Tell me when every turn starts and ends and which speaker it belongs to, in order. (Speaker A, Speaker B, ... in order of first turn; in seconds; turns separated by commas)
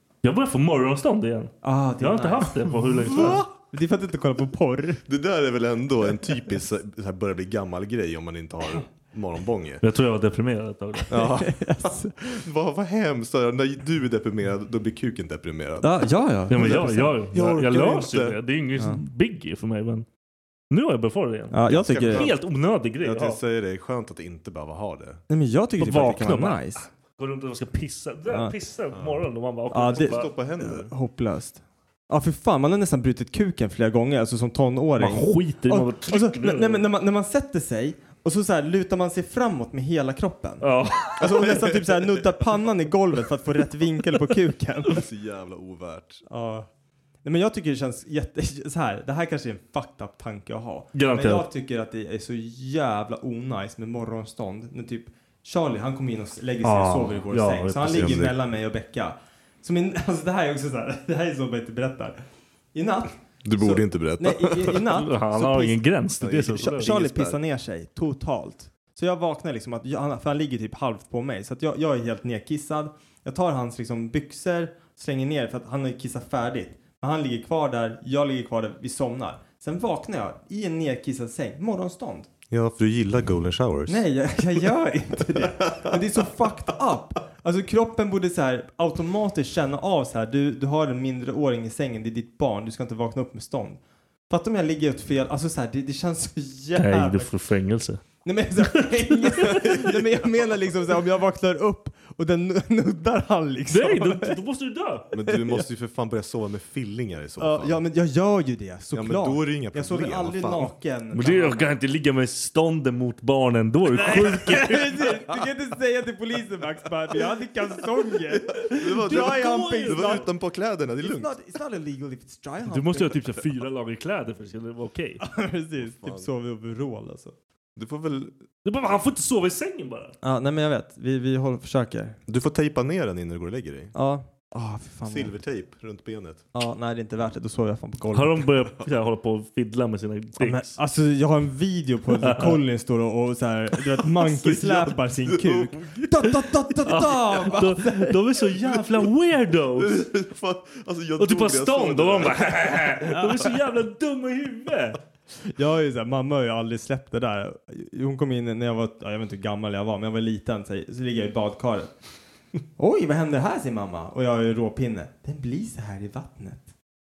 Speaker A: 0.2-3.4, Speaker B: 1.6-5.0, Speaker C: 3.1-3.4, Speaker C: 5.0-9.8, Speaker A: 9.8-11.2, Speaker C: 11.1-16.0, Speaker B: 11.2-12.4, Speaker B: 15.8-17.1, Speaker A: 16.5-20.1, Speaker C: 16.5-18.4, Speaker A: 20.7-23.4, Speaker B: 21.5-22.3, Speaker C: 21.6-22.4, Speaker C: 23.0-25.2, Speaker B: 25.3-26.9, Speaker A: 25.8-30.3, Speaker B: 28.3-28.5, Speaker C: 28.9-30.9, Speaker B: 29.7-45.0, Speaker A: 35.0-36.8, Speaker A: 40.6-41.3, Speaker C: 41.2-42.3, Speaker C: 44.9-46.2, Speaker B: 46.3-46.7, Speaker B: 47.2-62.2, Speaker A: 50.9-51.5, Speaker A: 56.6-58.1, Speaker C: 57.9-58.4, Speaker B: 62.7-65.8, Speaker C: 63.4-64.8, Speaker A: 64.9-66.9, Speaker C: 66.2-67.4, Speaker B: 66.6-82.3, Speaker C: 82.5-84.0, Speaker B: 83.9-97.3, Speaker C: 85.7-86.0, Speaker A: 96.8-98.0, Speaker B: 98.2-104.4, Speaker C: 99.5-100.0, Speaker A: 103.7-105.0, Speaker B: 105.1-105.6, Speaker C: 105.1-107.8, Speaker B: 107.4-111.7, Speaker C: 108.9-110.7, Speaker A: 111.1-115.1, Speaker B: 113.9-120.3, Speaker C: 118.3-121.3, Speaker A: 118.7-120.3, Speaker B: 121.0-123.2, Speaker A: 122.7-125.2, Speaker B: 125.2-127.3, Speaker C: 125.8-126.3, Speaker C: 127.8-128.4, Speaker A: 128.6-130.2, Speaker B: 130.2-132.2, Speaker C: 132.3-133.9, Speaker B: 133.9-135.3, Speaker C: 135.1-136.4, Speaker B: 136.5-138.4, Speaker A: 138.1-140.8, Speaker B: 140.4-148.2, Speaker A: 142.2-142.6, Speaker C: 143.9-146.3, Speaker A: 146.8-150.0, Speaker C: 148.8-149.0, Speaker C: 149.7-153.5, Speaker A: 151.2-155.0, Speaker B: 155.4-161.9, Speaker B: 162.8-166.7